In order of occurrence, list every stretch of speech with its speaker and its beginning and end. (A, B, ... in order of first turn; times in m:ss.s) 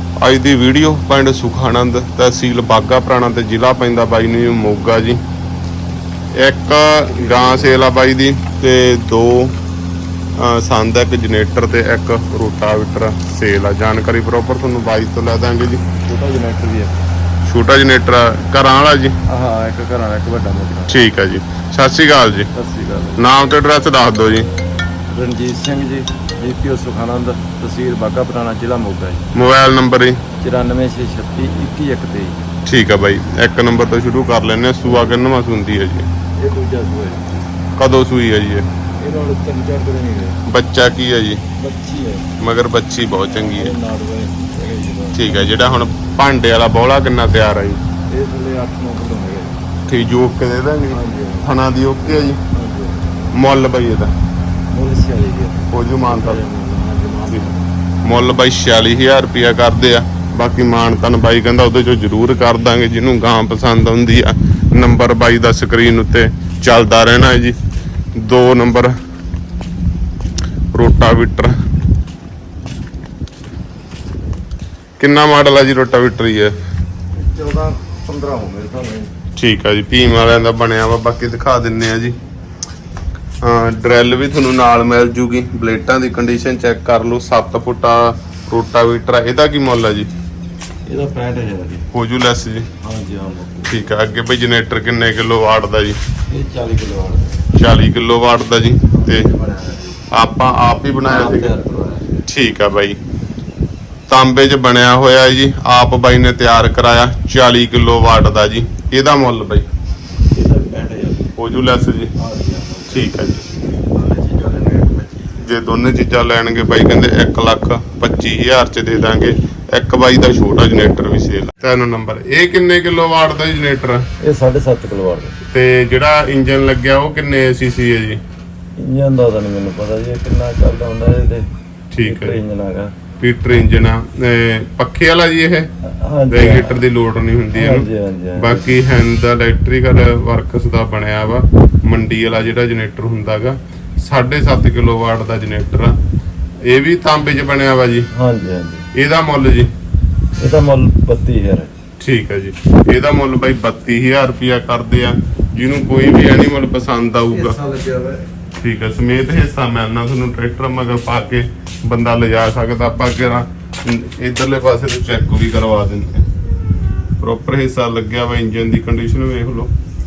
0:00.2-0:05.2 A
0:06.4-0:09.5 A
0:07.0-0:07.9 B
0:10.4-0:15.8 A
0:16.0-0:16.9 B
0:17.4-0:19.2 A
0:19.3-0:21.1 B
0:20.9-0:22.5 A
0:22.5-0:23.2 B
0:23.2-0:24.5 A
0:25.1-0:29.2 B
0:29.3-0:30.2 A
0:30.4-0:32.4 B
0:32.6-0:36.1 A
0:34.8-0:35.2 B
0:36.4-0:37.4 B
0:37.8-0:38.6 A
0:39.0-0:40.4 B
0:40.4-0:41.4 A
0:41.6-0:42.3 B
0:42.4-0:43.7 A
0:43.3-0:45.6 B
0:45.1-0:47.8 A
0:48.1-0:49.6 B
0:49.9-0:52.4 A
0:50.9-0:51.5 B
0:52.5-0:53.3 B
0:53.3-0:54.1 A
0:54.7-0:57.6 B
0:55.7-0:56.4 A
0:58.0-1:07.6 A
1:08.2-1:08.9 A
1:10.7-1:11.5 A
1:15.0-1:16.6 A
1:17.2-1:19.1 B
1:19.4-1:22.1 A
1:23.4-1:30.1 A
1:30.9-1:31.9 B
1:31.9-1:32.7 A
1:32.8-1:33.8 B
1:33.6-1:36.0 A
1:36.3-1:37.5 B
1:37.5-1:39.3 A
1:38.9-1:40.0 B
1:40.1-1:41.5 A
1:41.0-1:42.2 B
1:42.3-1:43.0 A
1:44.1-1:49.6 A
1:50.3-1:51.3 B
1:51.4-1:52.1 A
1:52.2-1:55.4 B
1:52.9-1:53.4 A
1:55.4-2:04.0 A
2:04.2-2:05.4 B
2:05.5-2:08.2 A
2:08.8-2:11.5 B
2:11.9-2:12.4 A
2:12.0-2:12.9 B
2:13.2-2:15.7 A
2:15.8-2:16.8 B
2:16.3-2:25.9 A
2:17.5-2:18.7 B
2:26.7-2:28.1 A
2:28.1-2:28.8 B
2:28.9-2:29.7 A
2:30.4-2:31.7 B
2:32.0-2:37.6 A
2:37.3-2:38.2 B
2:38.6-2:46.2 A
2:47.2-2:49.7 A